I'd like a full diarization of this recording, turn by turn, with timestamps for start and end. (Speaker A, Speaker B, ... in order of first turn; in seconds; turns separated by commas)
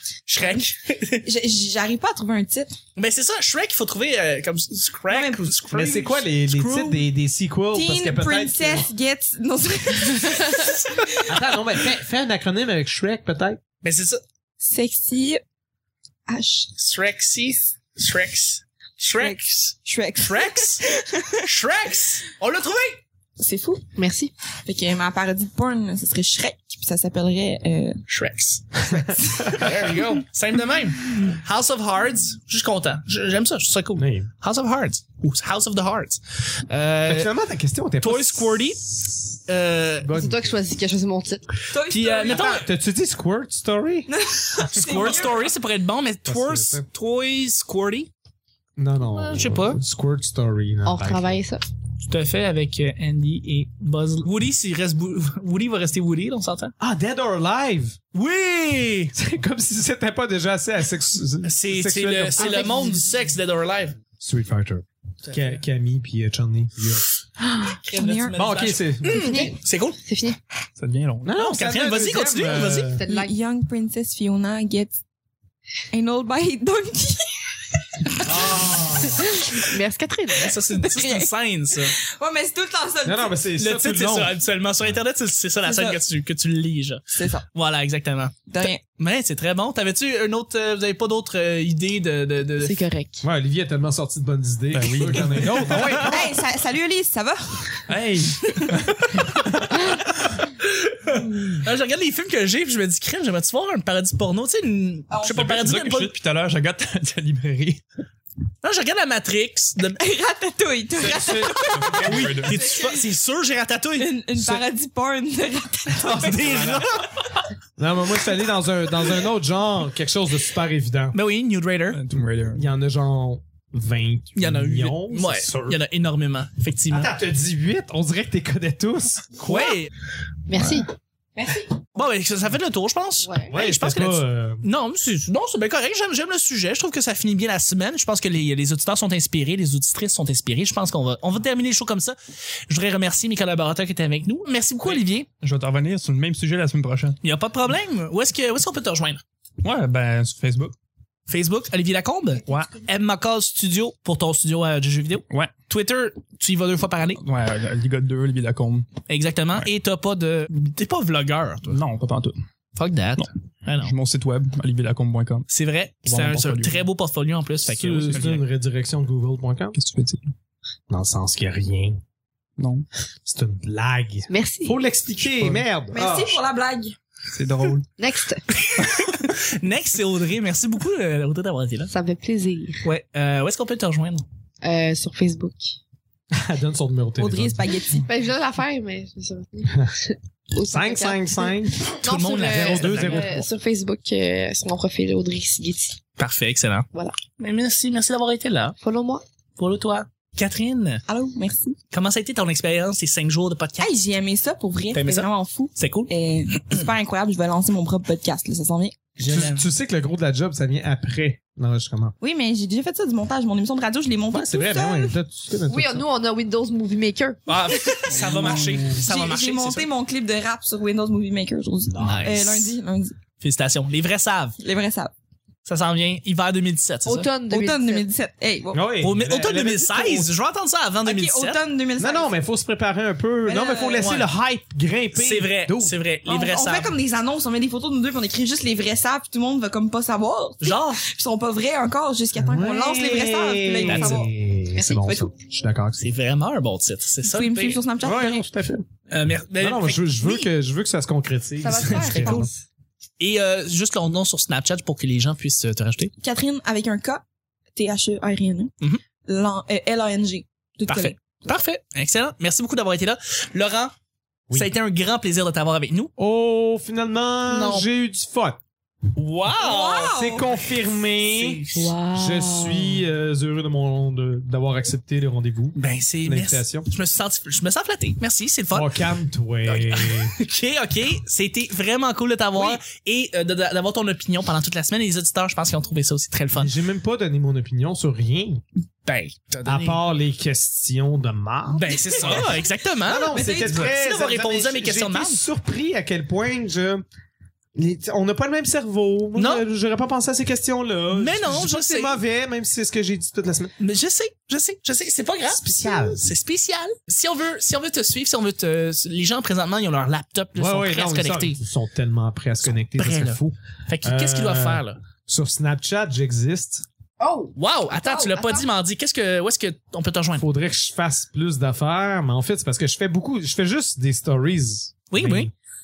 Speaker A: 0.3-1.2, Speaker B: 1.2-2.8, Speaker A: 3.0-7.0, Speaker B: 5.1-5.5, Speaker C: 5.7-8.9, Speaker B: 7.7-11.5, Speaker A: 10.5-11.2, Speaker C: 11.2-13.6, Speaker A: 13.8-14.2, Speaker B: 14.6-15.4, Speaker B: 16.3-16.7, Speaker A: 16.8-20.8, Speaker B: 19.2-21.5, Speaker A: 21.4-23.0, Speaker B: 23.4-23.9, Speaker D: 23.9-24.3, Speaker B: 24.6-28.0, Speaker A: 28.1-28.8, Speaker C: 28.9-29.9, Speaker B: 29.1-29.6, Speaker A: 29.5-37.3, Speaker C: 34.0-34.3, Speaker C: 37.0-39.0, Speaker A: 38.0-38.8, Speaker A: 39.4-40.1, Speaker C: 40.0-40.6, Speaker D: 40.1-41.4, Speaker B: 41.7-42.6, Speaker A: 41.9-42.6, Speaker C: 42.2-44.1, Speaker B: 44.1-45.5, Speaker A: 44.7-48.1, Speaker C: 46.2-46.9, Speaker C: 48.8-51.4, Speaker A: 49.3-49.8, Speaker D: 50.9-51.6, Speaker A: 52.0-56.7, Speaker C: 56.8-58.0, Speaker A: 58.1-59.1, Speaker C: 59.1-63.0, Speaker A: 61.4-64.0, Speaker B: 62.4-62.9, Speaker C: 64.2-67.0, Speaker A: 65.2-65.6, Speaker A: 67.8-70.0, Speaker B: 67.9-68.4, Speaker C: 68.4-69.5, Speaker D: 69.1-70.4, Speaker E: 70.8-71.3, Speaker C: 71.2-73.0, Speaker A: 71.3-73.0, Speaker D: 72.8-73.3, Speaker B: 73.1-75.0, Speaker B: 75.9-77.3, Speaker B: 78.0-79.6, Speaker C: 78.2-79.4, Speaker D: 79.3-80.5, Speaker A: 80.4-81.9, Speaker B: 80.5-83.4, Speaker C: 83.0-84.3, Speaker A: 83.6-92.8, Speaker B: 85.7-86.0, Speaker B: 87.1-87.5, Speaker B: 88.5-88.8, Speaker D: 92.6-93.2, Speaker C: 93.2-96.3, Speaker E: 94.7-96.2, Speaker A: 95.3-96.0, Speaker B: 96.0-97.8, Speaker E: 97.9-100.4, Speaker B: 98.4-98.7, Speaker A: 100.6-106.1, Speaker E: 101.1-101.6, Speaker B: 105.1-105.5, Speaker E: 105.3-107.8, Speaker A: 108.6-110.0, Speaker B: 110.0-113.1, Speaker C: 111.0-112.4, Speaker E: 111.7-112.7, Speaker A: 111.9-114.6, Speaker B: 114.0-116.7, Speaker C: 116.0-116.9, Speaker A: 116.0-117.2, Speaker C: 117.8-121.1, Speaker A: 121.1-122.0, Speaker E: 121.9-122.7, Speaker C: 122.5-125.8, Speaker A: 124.3-127.1, Speaker C: 126.9-129.6, Speaker A: 129.4-129.9, Speaker D: 130.5-130.9, Speaker B: 131.4-131.7, Speaker A: 131.9-142.2, Speaker D: 133.2-133.5, Speaker C: 133.5-134.7, Speaker A: 142.7-145.3, Speaker E: 144.8-147.2, Speaker A: 147.2-149.2, Speaker E: 149.6-150.7, Speaker A: 151.3-157.2, Speaker E: 157.2-158.9, Speaker A: 159.1-161.8, Speaker E: 161.7-162.3, Speaker A: 162.8-163.9, Speaker E: 163.8-165.5, Speaker A: 165.5-168.4, Speaker E: 166.0-166.9, Speaker C: 167.7-169.8, Speaker E: 169.7-170.3, Speaker C: 170.9-172.0, Speaker E: 172.6-172.8, Speaker C: 173.2-176.4, Speaker D: 174.3-174.8, Speaker E: 175.2-175.6, Speaker B: 175.9-176.9, Speaker E: 177.3-177.9, Speaker D: 178.0-178.5, Speaker A: 178.5-181.9, Speaker D: 181.9-182.8, Speaker A: 182.8-184.2, Speaker D: 184.6-185.8, Speaker C: 186.3-187.7, Speaker B: 187.2-188.1, Speaker D: 188.0-196.0, Speaker C: 190.6-191.9, Speaker A: 192.0-193.3, Speaker C: 192.4-193.5, Speaker A: 196.2-196.9, Speaker A: 197.4-198.8, Speaker D: 198.8-199.2, Speaker A: 199.6-201.0, Speaker B: 201.1-201.8, Speaker A: 201.9-203.9, Speaker B: 203.8-209.0, Speaker A: 204.9-206.1, Speaker A: 209.2-209.7, Speaker C: 209.2-212.1, Speaker B: 212.2-215.1, Speaker C: 214.3-216.0, Speaker D: 215.7-218.0, Speaker A: 217.5-219.9, Speaker E: 218.1-219.0, Speaker B: 218.9-223.2, Speaker C: 221.9-222.4, Speaker A: 222.0-222.7, Speaker A: 223.4-224.6, Speaker B: 224.6-225.1, Speaker A: 225.6-227.3, Speaker D: 227.1-228.1, Speaker B: 227.5-228.8, Speaker C: 228.7-230.3, Speaker A: 229.0-231.6, Speaker B: 231.0-232.3, Speaker C: 232.0-235.9, Speaker B: 233.4-234.2, Speaker A: 234.0-234.3, Speaker A: 235.1-236.9, Speaker B: 236.2-244.3, Speaker A: 240.6-241.0, Speaker C: 242.3-246.1, Speaker D: 243.9-244.1, Speaker D: 244.7-245.3, Speaker A: 246.0-247.8, Speaker B: 247.2-248.4, Speaker C: 248.0-248.8, Speaker A: 249.1-250.5, Speaker C: 249.6-252.5, Speaker D: 251.6-252.5, Speaker B: 251.8-252.4, Speaker A: 251.9-252.5, Speaker A: 253.2-256.1, Speaker B: 256.2-257.2, Speaker B: 257.7-261.1, Speaker A: 260.9-263.9, Speaker A: 264.5-266.1, Speaker C: 266.2-268.6, Speaker A: 267.5-267.9, Speaker A: 269.1-270.1, Speaker B: 269.5-270.6, Speaker C: 270.1-276.9, Speaker A: 271.2-271.9, Speaker D: 271.7-273.0, Speaker A: 275.7-278.9, Speaker C: 278.7-280.3, Speaker A: 279.7-286.7, Speaker C: 282.5-282.8, Speaker C: 286.5-288.6, Speaker A: 289.0-290.0, Speaker C: 289.6-297.0, Speaker A: 291.7-295.4, Speaker B: 293.3-293.9, Speaker C: 297.7-303.7, Speaker A: 299.4-299.6, Speaker A: 301.1-302.2, Speaker A: 303.8-311.6, Speaker C: 305.5-306.3, Speaker C: 310.5-316.8, Speaker A: 312.6-315.0, Speaker D: 317.2-318.7, Speaker A: 317.6-320.4, Speaker C: 320.3-325.5, Speaker A: 325.1-325.5